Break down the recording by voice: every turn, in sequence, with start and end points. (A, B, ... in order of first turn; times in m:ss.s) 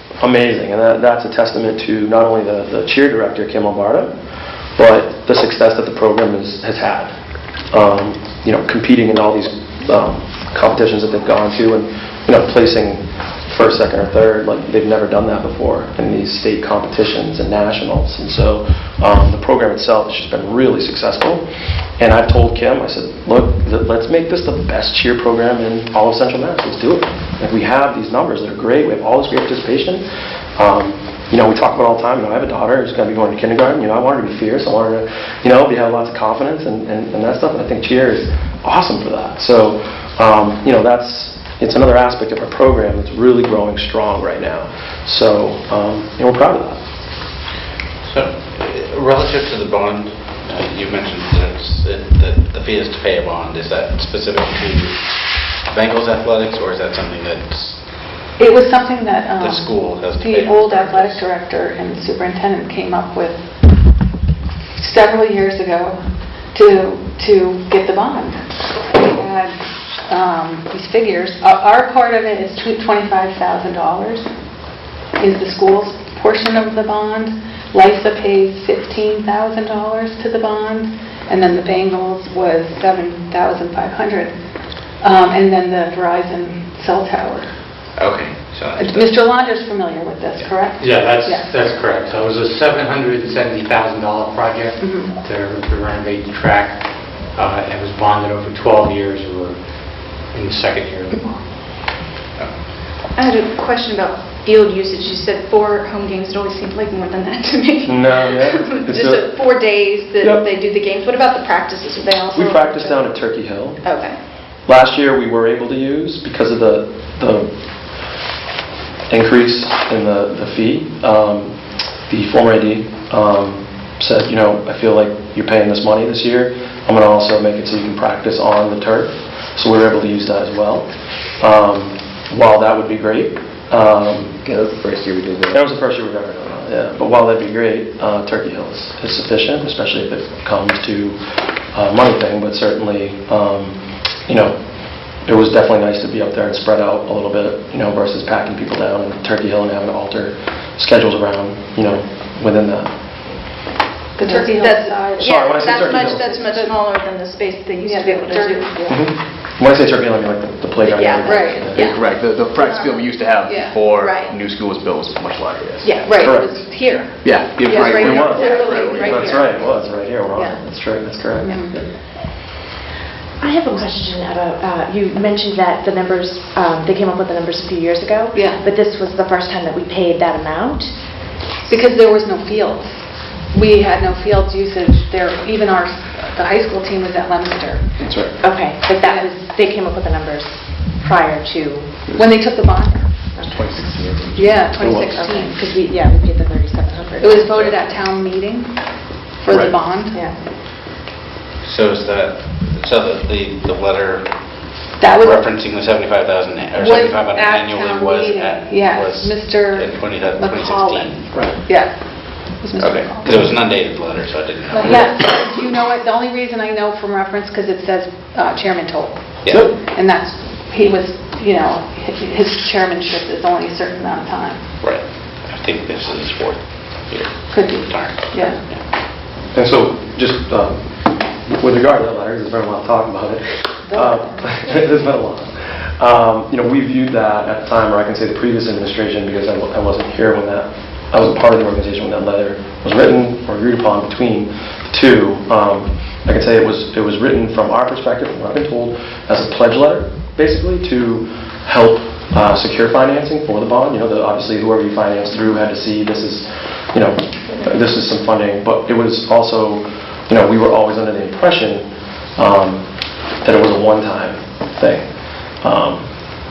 0:00.2-0:04.1 A
0:04.8-0:07.2 A
0:07.7-0:21.4 A
0:22.0-0:30.0 A
0:30.6-0:46.8 A
0:48.0-0:55.0 B
0:55.7-0:57.8 B
0:58.4-1:03.4 C
0:59.4-1:01.2 B
1:04.8-1:06.0 C
1:06.5-1:09.6 C
1:10.1-1:14.3 C
1:15.2-1:24.3 C
1:25.0-1:27.5 C
1:28.0-1:29.2 B
1:28.8-1:31.6 C
1:30.8-1:39.6 D
1:34.8-1:35.2 C
1:40.1-1:41.4 D
1:43.2-1:53.1 E
1:47.8-1:49.5 A
1:50.2-1:50.5 A
1:52.3-1:53.9 A
1:53.8-1:54.2 E
1:54.7-1:57.5 A
1:59.1-2:01.6 A
2:02.1-2:14.4 A
2:14.4-2:15.6 F
2:15.5-2:21.2 A
2:21.7-2:24.6 A
2:25.2-2:32.9 A
2:34.2-2:36.8 C
2:34.2-2:39.0 E
2:35.2-2:36.5 A
2:37.8-2:38.9 C
2:38.9-2:41.9 A
2:40.8-2:42.0 E
2:41.2-2:44.0 C
2:41.7-2:46.6 F
2:42.6-2:43.0 E
2:44.0-2:44.4 E
2:45.8-2:46.2 E
2:46.0-2:49.4 C
2:46.2-2:46.6 A
2:47.2-2:49.5 F
2:47.9-2:48.5 A
2:48.1-2:49.5 E
2:49.0-2:51.9 A
2:50.4-2:50.6 C
2:51.4-2:51.8 C
2:53.4-3:00.9 G
2:58.3-2:58.6 C
3:01.6-3:07.9 C
3:08.0-3:08.3 A
3:08.4-3:12.0 G
3:12.2-3:13.2 C
3:13.4-3:13.8 G
3:13.5-3:14.7 F
3:14.4-3:15.6 C
3:14.8-3:15.1 A
3:15.0-3:17.6 G
3:17.2-3:18.8 C
3:19.4-3:20.3 C
3:21.6-3:31.3 B
3:25.0-3:25.5 C
3:26.8-3:33.6 C
3:32.8-3:35.2 B
3:34.7-3:44.6 C
3:39.4-3:39.7 B
3:39.5-3:39.7 A
3:44.8-3:48.8 B
3:47.5-3:48.6 C
3:49.5-3:50.9 A
3:51.4-4:22.8 A
3:53.9-3:54.8 C
4:23.4-4:25.1 A
4:25.6-4:26.1 A